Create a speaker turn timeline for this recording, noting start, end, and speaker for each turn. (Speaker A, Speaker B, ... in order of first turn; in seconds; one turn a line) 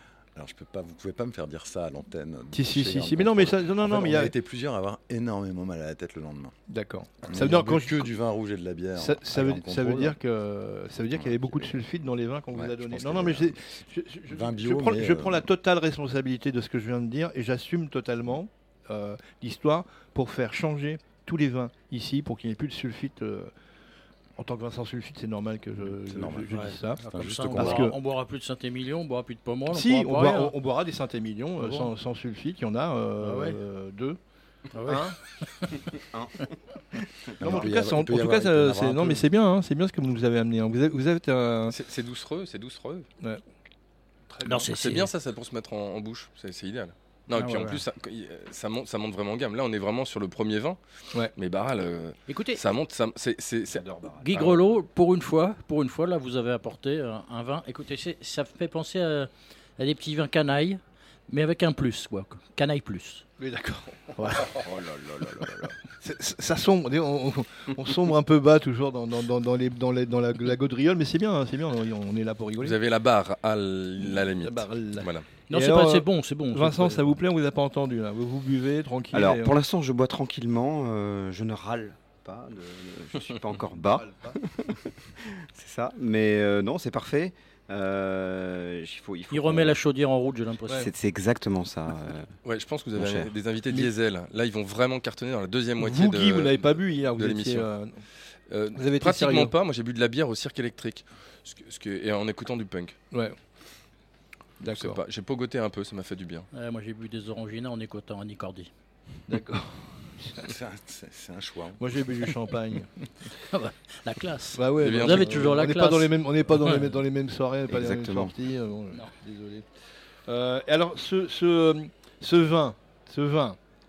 Speaker A: 0.3-6.5
Speaker B: 2.5-4.3
Speaker B: 6.7-8.1
Speaker A: 7.2-10.2
Speaker B: 9.0-23.5
Speaker A: 11.3-11.5
Speaker A: 12.5-13.5
Speaker A: 14.3-15.5
Speaker B: 24.4-27.0
Speaker A: 25.8-27.9
Speaker C: 26.5-30.5
Speaker B: 27.5-27.9
Speaker B: 29.7-34.2
Speaker C: 31.6-31.9
Speaker C: 33.2-33.6
Speaker C: 34.7-35.8
Speaker B: 34.9-35.2
Speaker D: 36.0-36.5
Speaker A: 37.4-39.2
Speaker B: 37.4-41.7
Speaker E: 41.7-43.0
Speaker B: 44.3-44.7
Speaker C: 44.4-45.1
Speaker E: 44.7-50.8
Speaker C: 47.3-47.8
Speaker E: 51.4-54.6
Speaker C: 52.3-52.6
Speaker D: 53.7-54.3
Speaker C: 54.2-63.2
Speaker B: 63.4-64.7
Speaker B: 66.0-72.8
Speaker E: 72.6-75.2
Speaker B: 74.0-79.5
Speaker C: 75.5-77.0
Speaker D: 79.1-89.8
Speaker B: 83.9-84.4
Speaker C: 89.3-90.9
Speaker D: 90.7-92.3
Speaker E: 92.4-97.7
Speaker D: 93.0-93.3
Speaker B: 95.8-98.0
Speaker E: 98.5-103.0
Speaker B: 98.7-99.5
Speaker B: 104.6-105.0
Speaker E: 104.7-106.5
Speaker C: 106.5-108.7
Speaker B: 109.3-110.5
Speaker A: 110.4-111.9
Speaker B: 111.8-112.9
Speaker C: 113.5-116.9
Speaker B: 114.5-119.7
Speaker E: 114.8-115.5
Speaker D: 117.7-118.3
Speaker B: 120.3-123.6